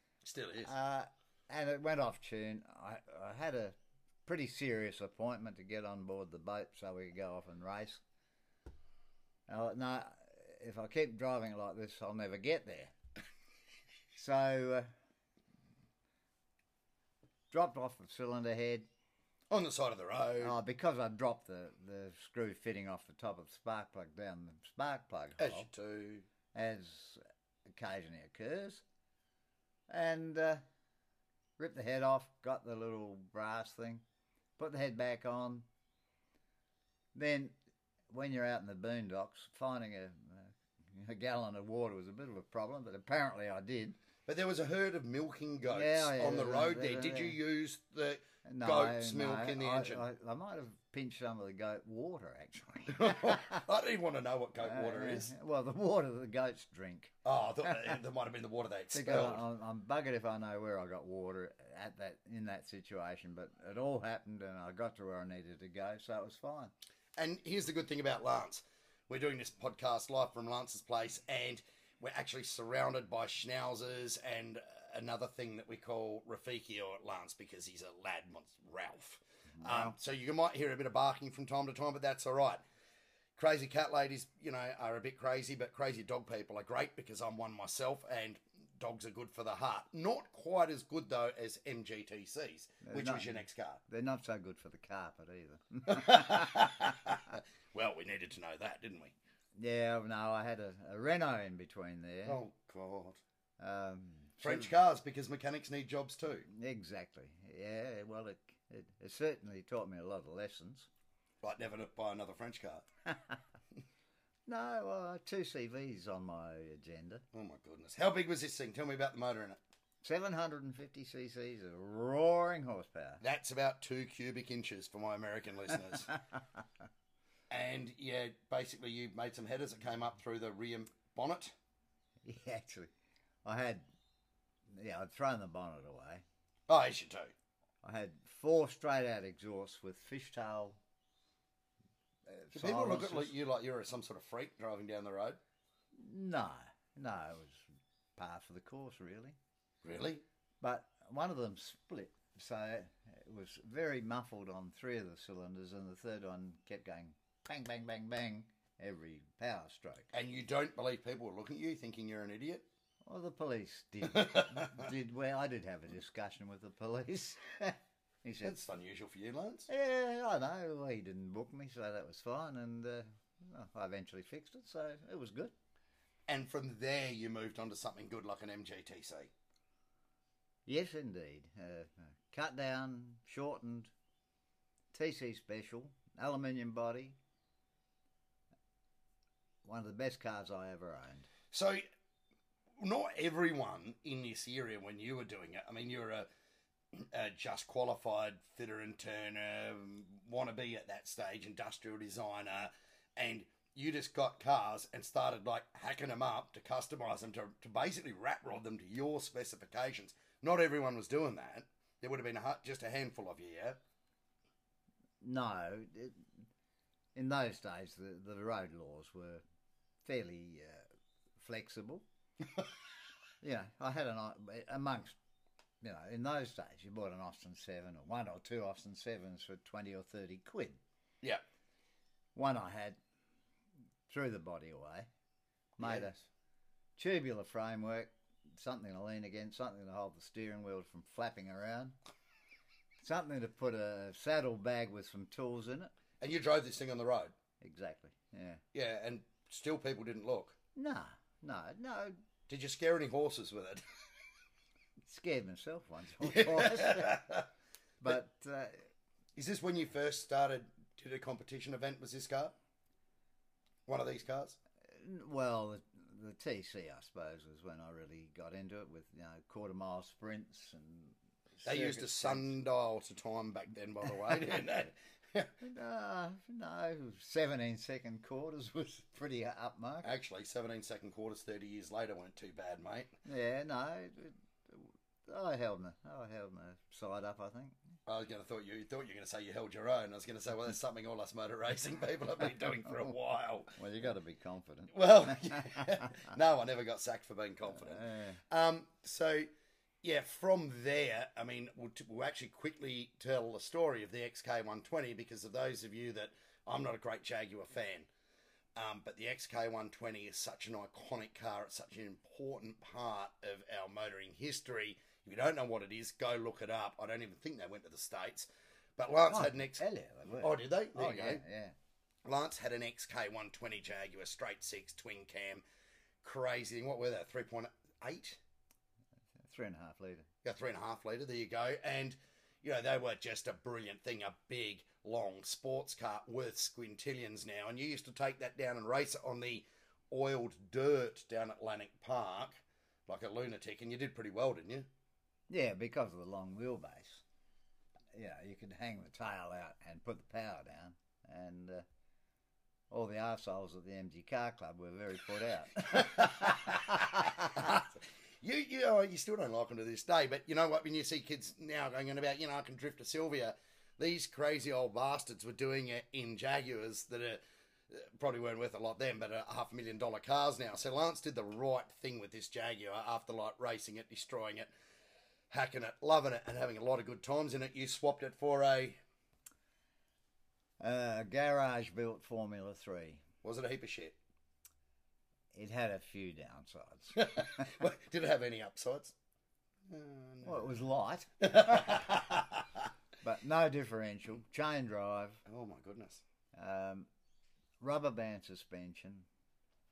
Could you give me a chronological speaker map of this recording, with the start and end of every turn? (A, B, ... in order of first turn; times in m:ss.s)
0:00.2-0:00.7 A
0:00.6-0:08.0 B
0:09.5-0:12.9 B
0:14.2-0:14.9 B
0:17.5-0:18.9 B
0:19.5-0:20.5 A
0:20.4-0:25.7 B
0:25.4-0:26.2 A
0:26.5-0:28.8 B
0:29.9-0:30.6 B
0:31.6-0:34.0 B
0:34.6-0:35.7 B
0:37.1-0:37.5 B
0:38.1-0:44.0 B
0:44.3-0:50.0 A
0:45.7-0:47.4 B
0:48.4-0:53.6 B
0:52.9-0:55.3 A
0:54.6-0:58.0 B
0:57.2-0:59.4 A
0:58.9-1:06.7 B
1:07.2-1:22.6 A
1:19.5-1:19.9 B
1:23.4-1:33.8 A
1:32.8-1:37.2 B
1:35.9-1:39.2 A
1:39.5-1:42.4 B
1:42.2-1:43.2 A
1:43.6-1:44.7 B
1:44.4-1:46.5 A
1:46.5-1:50.9 B
1:51.4-1:52.8 A
1:53.1-1:53.4 B
1:54.5-1:57.2 B
1:57.3-1:59.6 A
2:00.0-2:03.2 B
2:03.2-2:06.1 A
2:07.5-2:11.5 A
2:12.2-2:12.9 B
2:13.4-2:13.8 B
2:14.7-2:16.2 B
2:16.7-2:17.3 A
2:17.8-2:20.8 B
2:22.3-2:23.3 B
2:22.5-2:25.4 A
2:26.0-2:29.4 B
2:29.8-2:30.2 A
2:30.6-2:40.1 B
2:40.1-2:42.7 A
2:43.0-2:48.6 B
2:44.1-2:44.9 A
2:48.4-2:49.7 A
2:49.7-2:55.5 B
2:56.3-2:59.3 A
3:00.7-3:03.9 B
3:04.9-3:07.2 B
3:09.6-3:11.3 B
3:11.5-3:11.8 A
3:12.8-3:16.3 A
3:16.9-3:33.8 A
3:35.2-3:36.3 B
3:37.2-3:39.4 B
3:40.0-3:40.8 B
3:41.4-3:42.0 B
3:43.4-3:45.2 B
3:45.8-3:50.8 B
3:52.3-3:53.0 B
3:54.1-3:55.1 B
3:55.8-3:56.2 B
3:55.8-3:56.1 A
3:57.0-4:01.9 B
4:03.0-4:05.9 B
4:06.2-4:07.3 A
4:07.6-4:08.6 B
4:08.7-4:10.6 A
4:10.7-4:12.2 B
4:12.5-4:14.0 A
4:15.0-4:17.4 B
4:16.2-4:17.5 A
4:18.0-4:18.9 B
4:19.4-4:22.6 A
4:23.9-4:24.6 A
4:24.9-4:32.6 B
4:31.6-4:35.5 A
4:35.6-4:40.1 B
4:40.0-4:43.1 A
4:43.2-4:47.8 B
4:48.0-4:53.8 A
4:53.8-4:56.3 B
4:54.9-4:59.5 A
4:57.7-4:58.4 B
5:00.0-5:08.1 A
5:08.8-5:19.8 A
5:19.3-5:21.8 B
5:20.4-5:21.4 A
5:22.2-5:25.6 A
5:26.2-5:28.4 A
5:29.4-5:30.3 B
5:30.4-5:44.9 A
5:45.5-5:47.2 B
5:48.1-5:51.8 B
5:52.9-5:57.8 B
5:55.9-6:14.7 A
6:15.5-6:19.0 A
6:20.8-6:23.2 B
6:23.4-6:24.2 A
6:25.5-6:27.8 B
6:27.2-6:29.1 A
6:29.9-6:30.7 A
6:30.4-6:32.2 B
6:31.4-6:32.8 A
6:33.2-6:35.4 B
6:35.4-6:36.2 A
6:36.5-6:37.1 B
6:37.8-6:39.3 B